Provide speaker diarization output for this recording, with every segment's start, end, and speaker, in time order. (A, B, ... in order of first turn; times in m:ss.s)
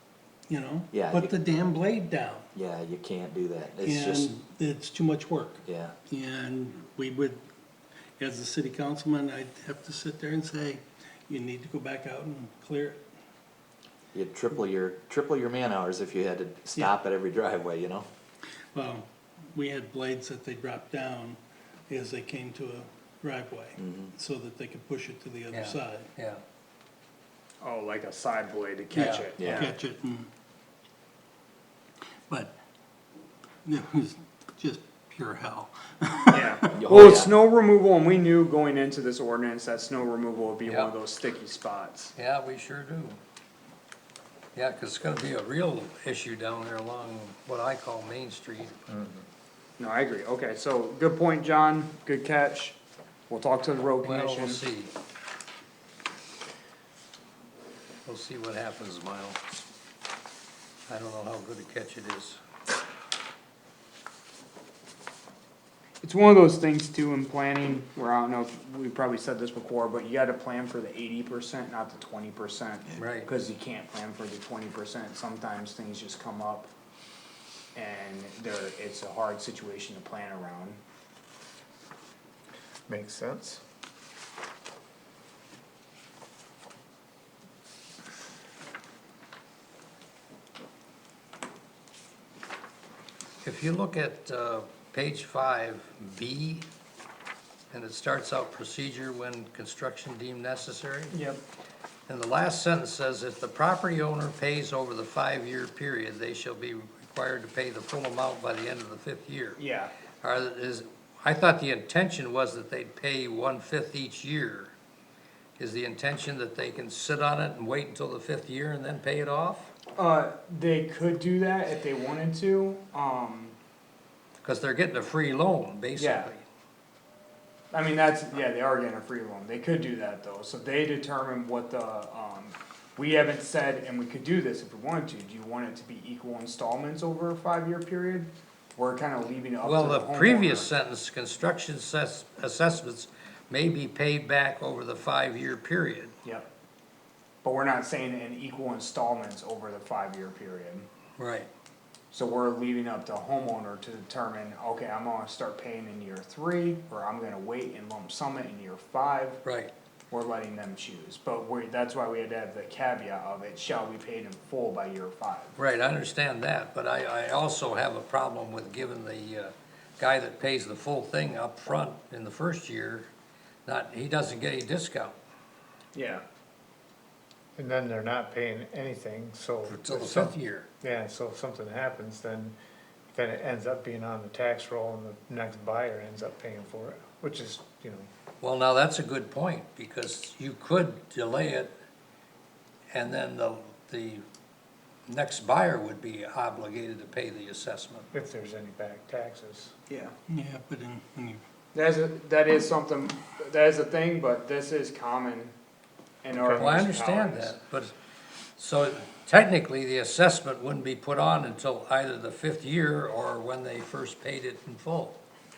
0:00.5-0:02.5 A
0:00.9-0:01.4 B
0:02.5-0:04.4 B
0:03.8-0:07.4 A
0:05.6-0:05.9 B
0:08.2-0:13.0 A
0:14.1-0:18.1 B
0:18.7-0:26.1 A
0:23.8-0:24.1 B
0:25.5-0:26.4 C
0:27.6-0:29.7 D
0:28.9-0:30.3 A
0:29.0-0:29.3 C
0:29.4-0:29.7 B
0:32.3-0:32.6 A
0:33.6-0:36.7 A
0:36.3-0:42.1 D
0:36.7-0:37.3 B
0:40.6-0:40.9 C
0:42.2-0:43.2 C
0:44.5-0:48.7 C
0:48.9-0:49.2 E
0:49.8-0:52.8 D
0:53.3-0:54.6 D
0:54.0-0:54.9 C
0:58.0-0:59.6 C
1:00.9-1:02.4 C
1:06.0-1:16.7 D
1:13.0-1:13.3 C
1:17.7-1:20.8 D
1:22.9-1:23.6 E
1:33.4-1:36.7 C
1:37.7-1:41.1 C
1:41.1-1:41.4 D
1:42.1-1:49.6 C
1:49.6-1:49.9 D
1:50.2-1:54.7 C
1:55.6-1:59.7 C
1:59.9-2:03.6 D
2:04.4-2:06.4 C
2:06.0-2:06.3 D
2:07.7-2:20.7 D
2:19.6-2:26.1 C
2:26.2-2:26.5 D
2:27.4-2:30.9 D
2:31.2-2:31.5 C
2:32.1-2:39.4 D
2:39.4-2:39.7 C
2:40.1-2:45.5 D
2:45.6-2:53.1 C
2:53.6-2:55.2 C
2:55.9-2:56.2 D
2:57.6-3:02.5 E
2:59.7-3:00.7 C
3:03.1-3:08.1 E
3:08.4-3:11.7 C
3:12.9-3:14.2 C
3:15.1-3:18.1 C
3:18.1-3:19.7 E
3:19.9-3:20.1 D
3:20.3-3:21.4 A
3:21.7-3:25.5 D
3:26.2-3:27.6 D
3:26.3-3:26.6 E
3:26.5-3:27.9 C
3:28.6-3:35.2 C